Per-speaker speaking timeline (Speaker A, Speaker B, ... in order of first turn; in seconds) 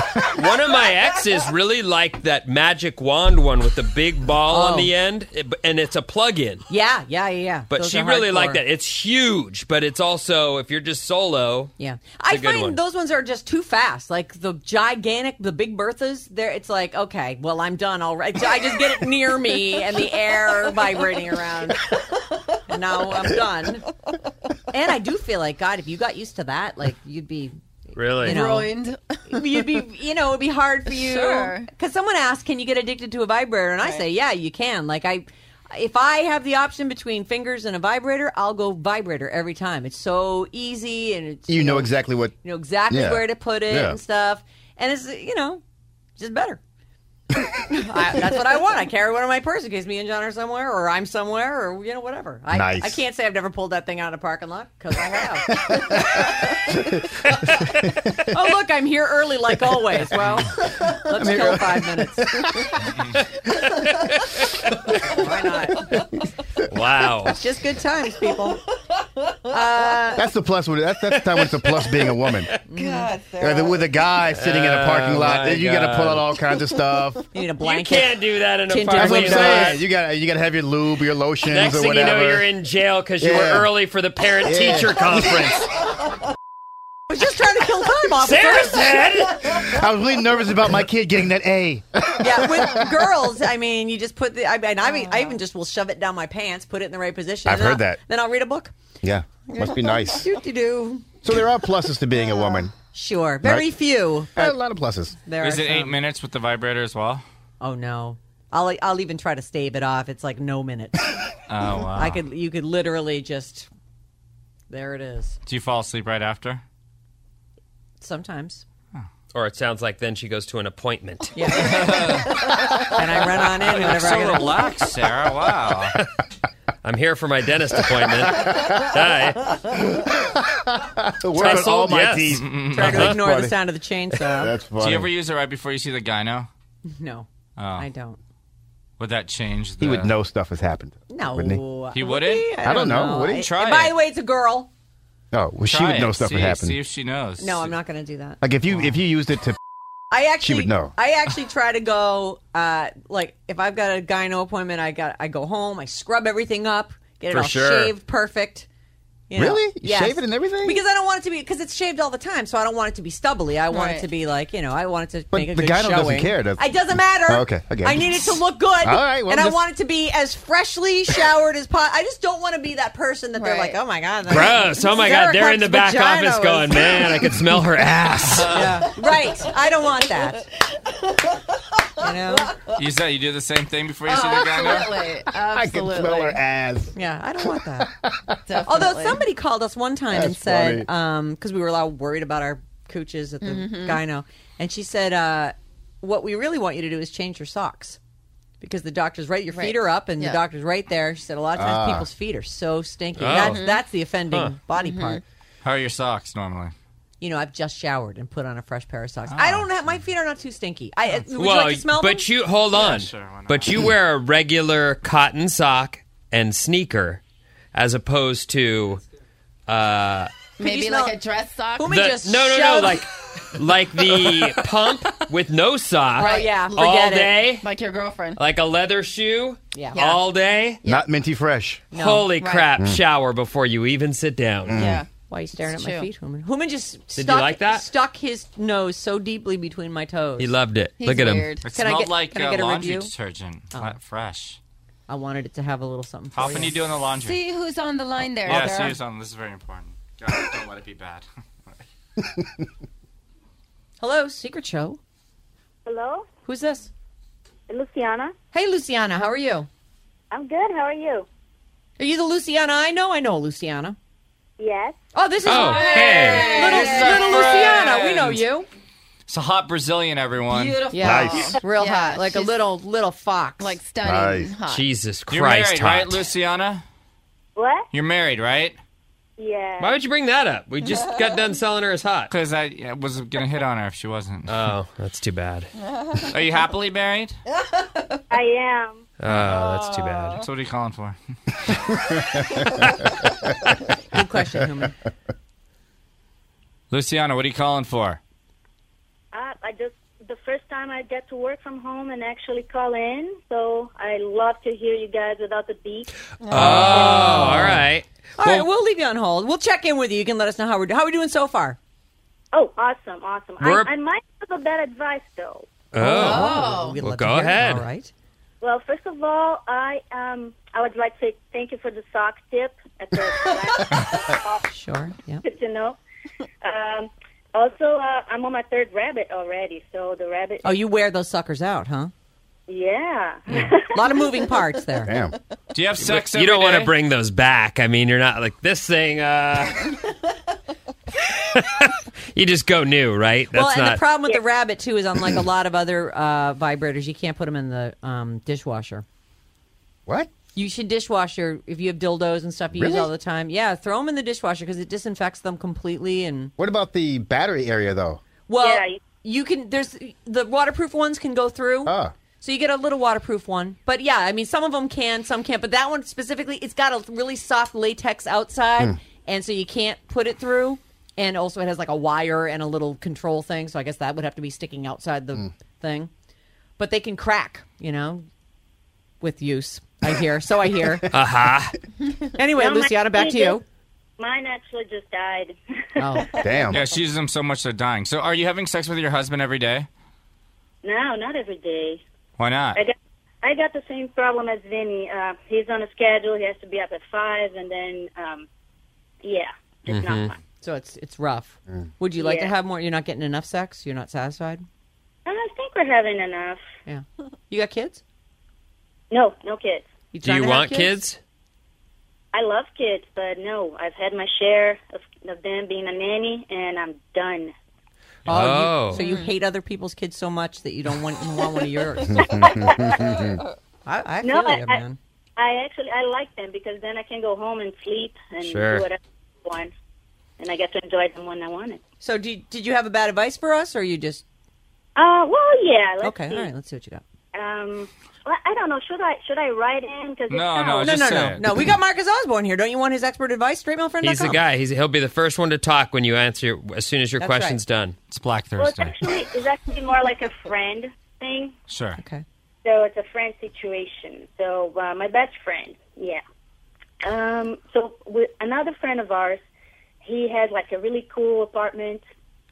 Speaker A: 0.2-6.6, 7.7-11.7, 12.3-12.8, 27.9-28.4, 66.6-67.4, 71.1-72.6, 74.3-76.4, 77.6-79.8, 81.4-85.7, 88.2-89.8, 119.3-121.3, 126.8-129.7, 131.3-132.4, 157.3-157.9, 174.3-178.6, 203.2-203.7, 204.3-204.6, 211.3-217.2, 217.7-219.0, 219.7-220.5, 221.9-227.7, 228.4-230.8, 231.9-234.8, 237.1-237.8, 240.4-241.5, 265.5-266.4, 274.7-276.1, 279.8-282.3, 284.5-285.7, 289.2-290.4, 306.5-308.7, 313.6-313.9, 315.9-317.9, 336.0-340.0, 341.2-344.0, 381.1-381.8, 399.9-400.3, 410.2-411.2, 418.3-419.0, 428.4-428.9, 444.0-447.9
Speaker B: 4.5-4.9, 6.7-8.6, 11.8-21.9, 22.7-23.9, 24.7-27.5, 28.2-28.8, 29.3-41.9, 42.4-45.6, 46.2-46.6, 47.5-56.3, 58.2-62.5, 65.0-66.0, 67.3-68.6, 69.5-70.2, 72.7-73.2, 77.3-79.8, 87.1-89.0, 92.2-98.7, 99.5-101.1, 102.9-104.5, 105.2-106.0, 107.6-111.2, 112.0-113.7, 114.7-115.4, 118.0-118.6, 121.3-124.7, 131.3-132.0, 132.7-134.5, 136.8-138.2, 141.1-144.7, 147.4-148.4, 150.1-158.7, 159.3-177.3, 178.5-180.5, 182.0-182.6, 186.9-187.9, 188.6-198.0, 198.6-205.2, 207.2-212.2, 220.6-221.2, 221.8-223.1, 226.2-227.4, 229.7-230.2, 231.9-232.3, 235.3-240.5, 241.7-243.1, 245.1-246.7, 248.5-248.8, 254.0-255.0, 256.4-256.9, 258.5-259.7, 262.0-263.9, 265.1-268.7, 270.9-273.8, 294.1-294.9, 306.6-307.8, 308.4-311.8, 316.0-318.1, 324.7-325.4, 330.6-332.1, 333.5-335.1, 343.5-349.0, 350.5-356.5, 358.5-376.1, 376.8-378.2, 379.2-381.1, 382.3-383.6, 386.0-386.3, 400.6-404.6, 406.9-408.0, 410.1-411.0, 418.3-422.8, 423.9-425.0, 432.0-434.2, 436.0-437.0, 440.8-444.4, 447.2-447.6, 452.0-452.2
Speaker C: 28.2-29.8, 30.9-31.7, 72.8-73.8, 163.7-164.1, 173.3-173.8, 184.1-186.4, 188.5-189.2, 193.4-194.0, 199.5-200.4, 203.3-203.8, 204.8-205.2, 220.6-222.0, 226.2-226.9, 227.6-228.4, 229.9-230.2, 232.4-232.7, 234.7-236.1, 241.0-241.7, 247.2-249.0, 265.5-267.7, 270.5-272.6, 273.6-274.9, 289.8-290.3, 306.4-307.5, 316.1-317.0, 418.9-419.3
Speaker D: 41.5-42.3, 42.9-44.0, 52.5-53.0, 55.7-56.0, 60.9-62.7, 70.1-72.5, 73.4-77.2, 78.9-82.5, 83.2-83.7, 84.4-85.5, 89.4-92.9, 97.4-98.0, 99.0-100.3, 101.2-102.7, 103.4-103.7, 104.3-105.2, 128.0-128.9, 129.7-133.6, 134.3-135.1, 139.8-141.6, 142.6-143.5, 145.3-146.8, 148.4-149.6, 150.4-150.9, 159.3-160.8, 165.3-169.6, 185.3-188.4, 190.1-190.9, 201.6-202.1, 230.8-231.8, 234.7-235.0, 271.0-271.5, 274.0-274.6, 335.0-335.4, 350.1-350.3, 352.7-353.1, 356.6-358.2, 361.9-362.1, 386.4-386.8, 422.1-423.4
Speaker E: 105.4-107.2, 111.5-112.2, 115.5-116.6, 121.5-122.5, 123.6-126.0, 132.3-133.2, 134.8-136.5, 137.6-137.9, 139.0-140.1, 141.9-143.9, 145.7-147.7, 178.3-178.8, 182.7-185.0, 205.6-206.7, 209.3-210.0, 212.7-213.7, 241.6-244.6, 246.3-247.4, 248.4-251.2, 265.4-268.4, 269.3-270.8, 275.3-276.8, 277.9-278.8, 282.3-284.6, 286.2-287.4, 289.2-289.8, 290.4-291.2, 296.9-298.2, 306.5-307.8, 335.7-336.9, 386.7-389.9, 392.4-392.8, 440.3-441.7, 448.1-449.0, 451.7-452.0
Speaker F: 255.8-256.3, 257.7-258.3, 260.3-261.3, 264.6-265.0, 277.6-277.9, 279.4-280.0, 288.3-289.1, 299.3-306.1, 312.5-315.8, 318.6-324.7, 325.4-326.0, 326.6-330.8, 332.7-334.1, 358.6-359.0, 382.5-383.6, 384.2-386.4, 390.8-392.0, 392.7-398.5, 399.2-400.4, 402.2-402.5, 405.2-406.6, 409.1-409.9, 412.3-417.5, 422.2-423.2, 424.2-424.8, 425.4-429.7, 430.4-431.8, 434.9-436.5, 437.3-441.1, 448.6-451.5, 452.6-456.2, 457.0-459.4, 460.0-462.0